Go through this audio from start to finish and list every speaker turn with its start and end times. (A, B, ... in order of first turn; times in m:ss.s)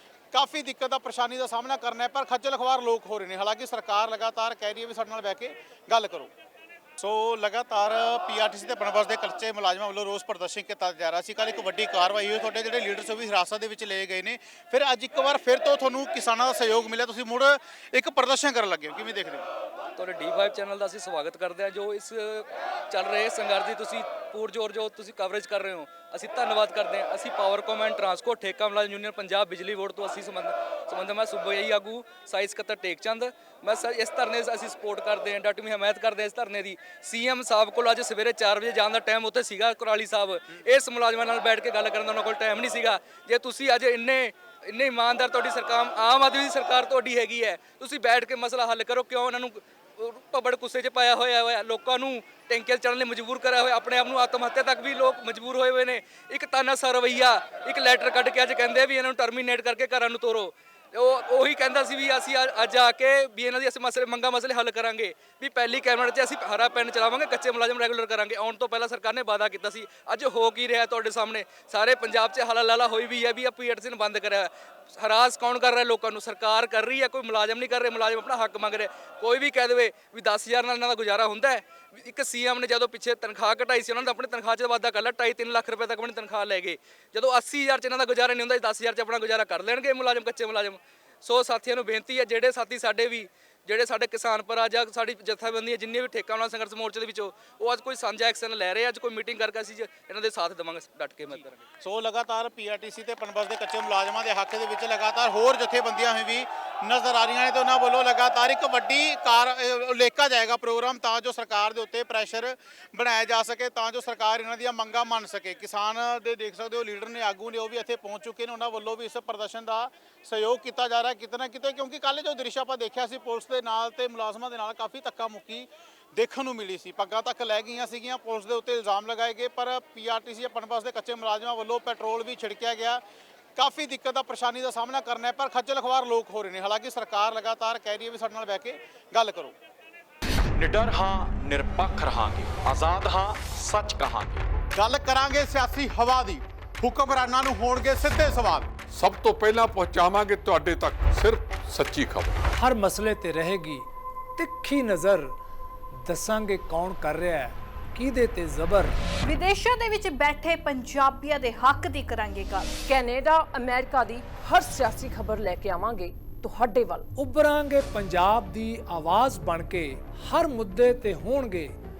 0:00.3-0:06.3 A
0:07.0-0:19.5 A
0:20.0-1:41.6 B
1:41.8-2:13.0 A
2:13.6-2:19.5 A
2:20.6-2:24.5 C
2:24.7-2:28.7 A
2:28.9-2:32.4 D
2:32.6-2:33.8 E
2:34.4-2:35.3 E
2:36.0-2:39.0 E
2:39.2-2:42.8 F
2:42.8-2:47.1 G
2:47.2-2:51.8 E